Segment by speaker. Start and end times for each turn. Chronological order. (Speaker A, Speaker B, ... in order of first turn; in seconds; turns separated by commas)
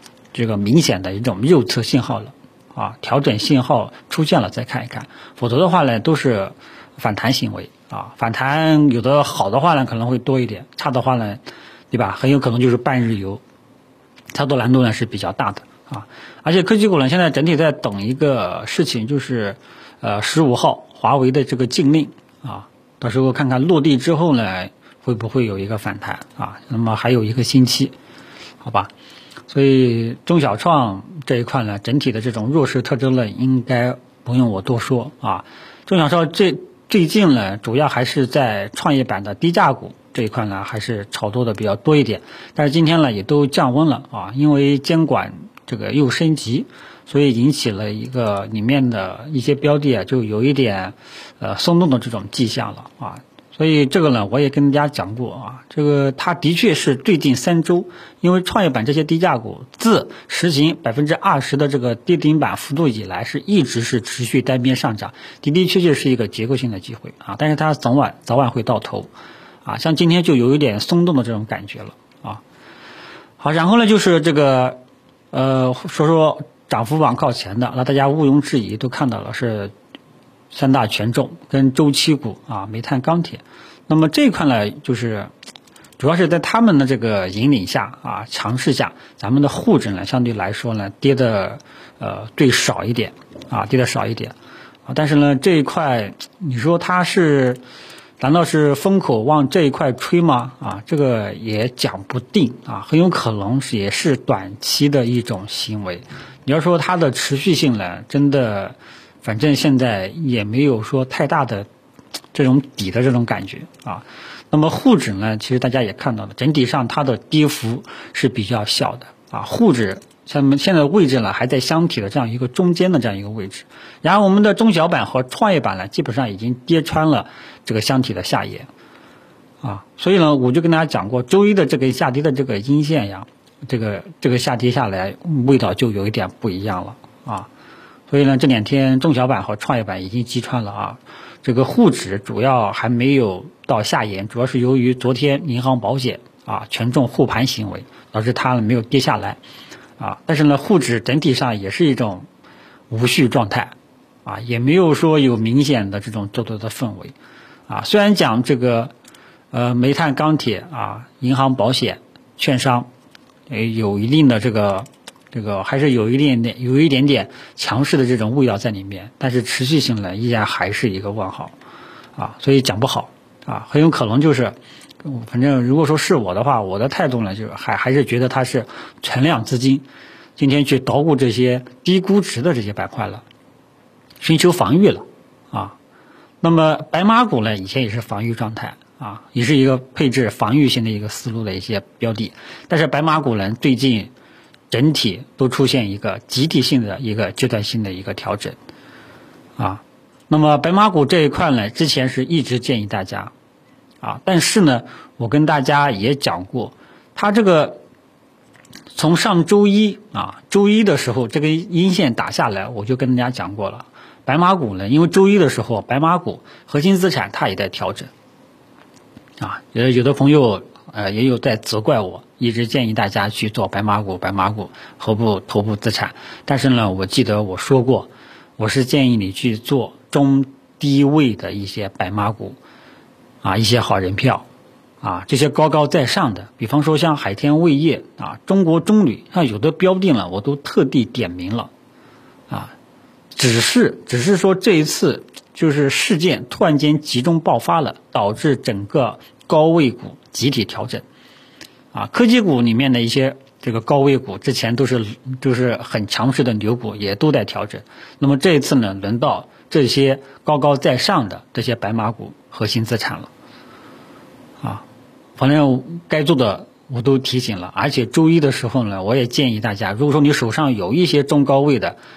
Speaker A: 0.3-13.4, Speaker A: 14.3-27.9, Speaker A: 28.6-28.9, Speaker A: 29.5-69.1, Speaker A: 69.6-72.4, Speaker A: 73.4-74.8, Speaker A: 75.3-79.7, Speaker A: 80.5-85.3, Speaker A: 86.0-94.3, Speaker A: 94.9-97.6, Speaker A: 98.2-111.7, Speaker A: 112.3-128.7, Speaker A: 129.6-137.5, Speaker A: 138.1-149.4, Speaker A: 150.0-152.3, Speaker A: 152.9-153.7, Speaker A: 154.2-157.1, Speaker A: 157.7-158.9, Speaker A: 159.5-162.9, Speaker A: 163.5-171.5, Speaker A: 172.2-179.8, Speaker A: 180.4-183.2, Speaker A: 184.2-185.7, Speaker A: 186.4-194.1, Speaker A: 194.7-198.6, Speaker A: 199.6-203.3, Speaker A: 204.0-207.8, Speaker A: 208.9-218.1, Speaker A: 219.4-232.6, Speaker A: 233.4-234.4, Speaker A: 235.0-241.7, Speaker A: 243.3-251.0, Speaker A: 251.9-263.3, Speaker A: 265.4-272.0